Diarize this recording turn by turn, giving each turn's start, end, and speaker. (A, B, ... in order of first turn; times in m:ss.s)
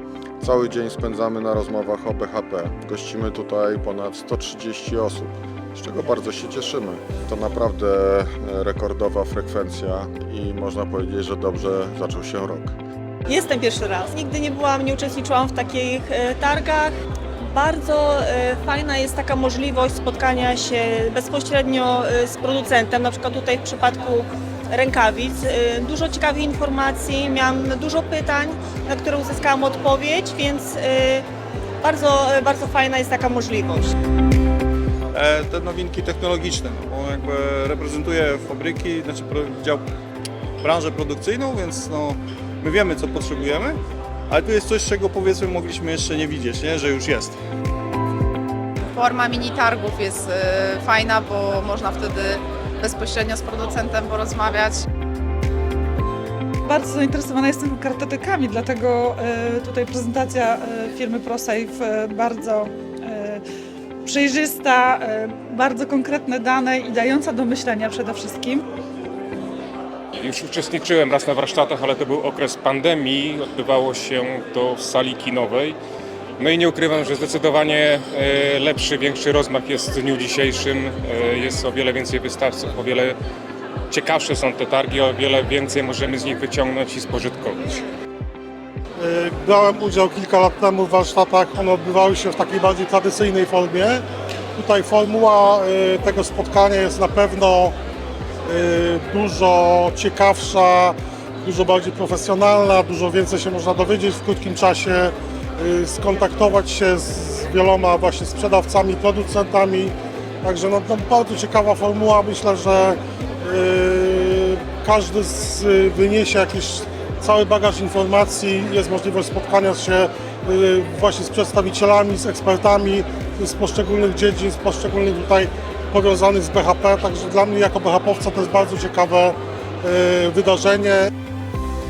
0:00.4-0:12.8 A
0:13.3-0:31.3 B
0:31.8-0:34.0 B
0:35.1-0:39.8 C
0:40.6-0:43.8 C
0:44.3-0:47.4 C
0:48.9-0:54.8 D
0:56.7-1:03.4 E
1:04.0-1:08.6 E
1:10.2-1:15.8 F
1:16.4-1:23.2 F
1:23.9-1:27.8 F
1:29.0-1:34.0 G
1:34.6-1:37.8 G
1:38.5-2:11.0 G